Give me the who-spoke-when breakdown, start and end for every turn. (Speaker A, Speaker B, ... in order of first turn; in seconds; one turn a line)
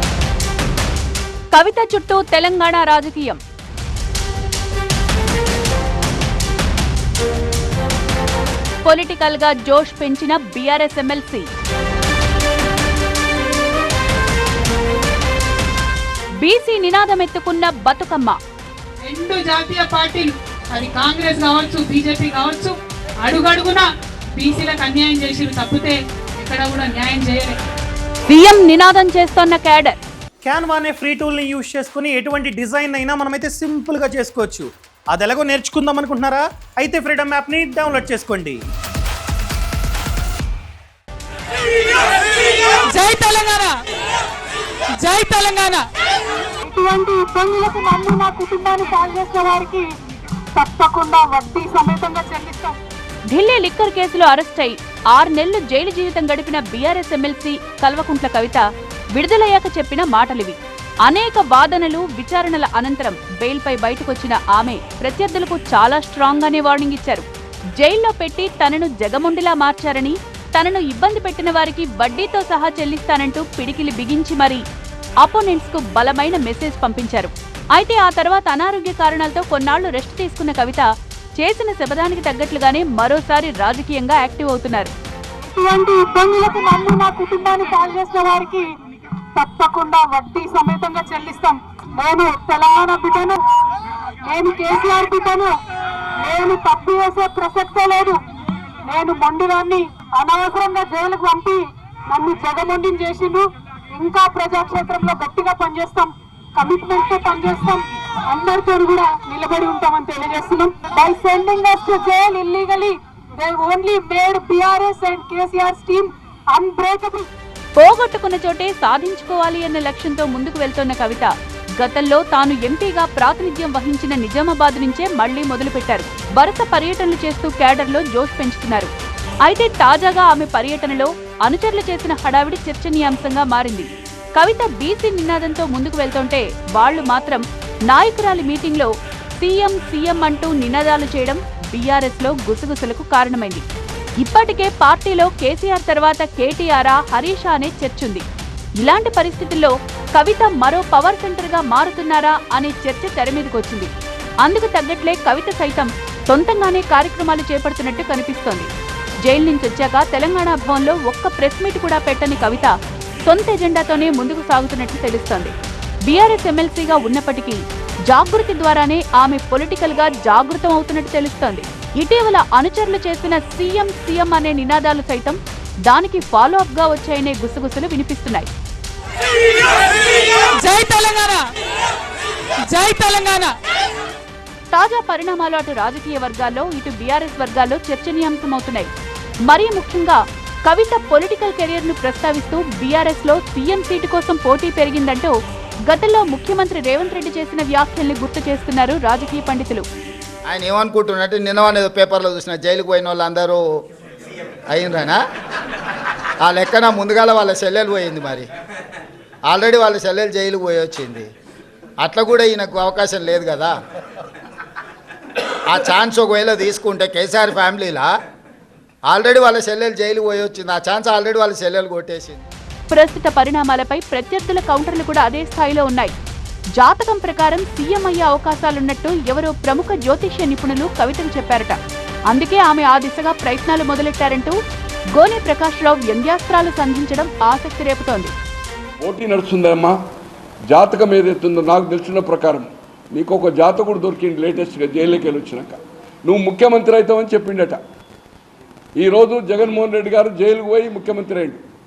Speaker A: 1.5-3.4
Speaker A: 8.8-11.5
Speaker A: 16.4-18.4
Speaker B: 19.1-27.6
Speaker A: 28.3-30.0
Speaker C: 30.4-38.6
Speaker B: 42.6-43.8
Speaker B: 45.0-45.8
Speaker D: 46.6-49.9
Speaker D: 50.6-52.7
Speaker A: 53.3-58.6
Speaker A: 59.2-67.3
Speaker A: 67.8-74.6
Speaker A: 75.2-80.9
Speaker A: 81.4-84.9
Speaker D: 85.5-88.6
Speaker D: 89.4-93.4
Speaker D: 94.3-95.5
Speaker D: 96.2-98.2
Speaker D: 98.9-103.4
Speaker D: 104.0-117.3
Speaker A: 117.8-128.9
Speaker A: 129.5-143.7
Speaker A: 144.2-148.2
Speaker A: 148.8-153.9
Speaker A: 154.4-158.7
Speaker A: 159.2-162.7
Speaker A: 163.3-165.5
Speaker A: 166.1-175.4
Speaker A: 175.9-178.5
Speaker B: 180.6-181.4
Speaker B: 182.7-183.5
Speaker A: 184.7-188.9
Speaker A: 189.5-195.3
Speaker A: 195.9-199.8
Speaker E: 200.5-203.6
Speaker E: 204.7-205.2
Speaker E: 206.4-208.5
Speaker E: 209.5-211.3
Speaker E: 212.0-213.7
Speaker E: 215.7-218.1
Speaker E: 219.1-222.4
Speaker A: 222.9-226.1
Speaker A: 226.8-231.8
Speaker A: 232.3-234.6
Speaker A: 235.2-238.3
Speaker F: 239.0-239.9
Speaker F: 240.7-247.8
Speaker F: 249.0-251.6